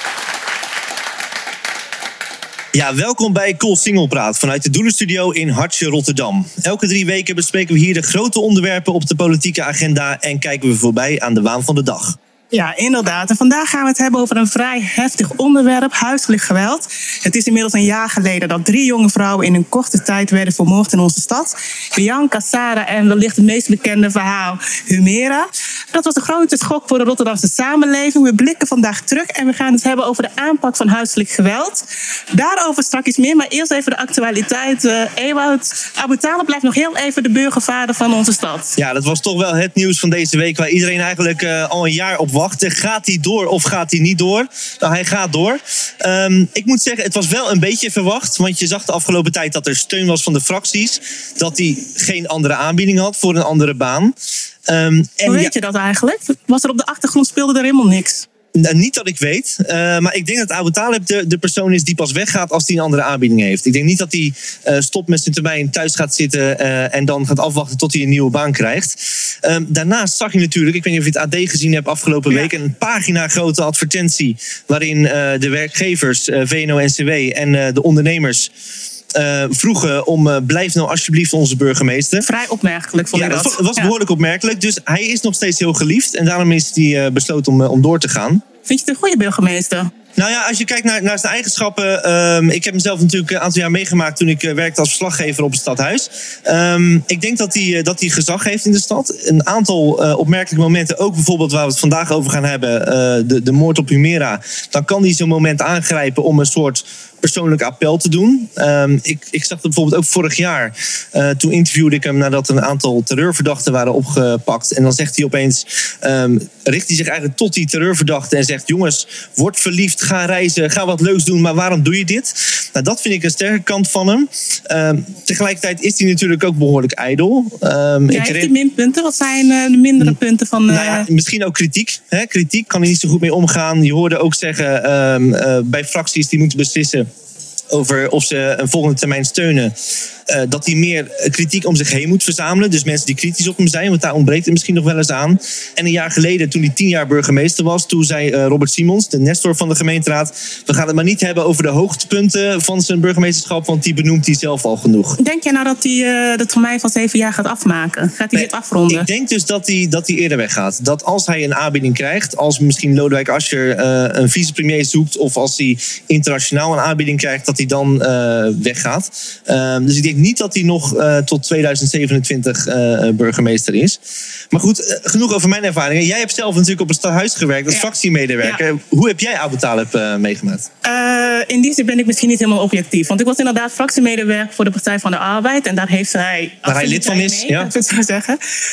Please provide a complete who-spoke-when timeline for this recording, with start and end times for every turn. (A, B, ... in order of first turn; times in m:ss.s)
0:02.7-0:12.2 A
0:12.5-0:38.7 B
0:38.8-0:54.1 A
0:54.7-0:55.5 A
0:55.2-0:58.2 B
0:58.6-1:18.5 A
1:19.1-1:22.2 A
1:22.2-1:23.9 B
1:23.1-1:28.4 A
1:28.7-1:29.9 B
1:30.2-2:08.5 A
2:08.1-2:11.0 B
2:10.7-2:17.1 A
2:17.7-2:19.7 A
2:20.3-2:35.2 A
2:35.2-2:39.1 B
2:38.3-2:54.0 A
2:54.5-3:00.7 A
3:00.8-3:08.4 B
3:06.6-3:07.7 A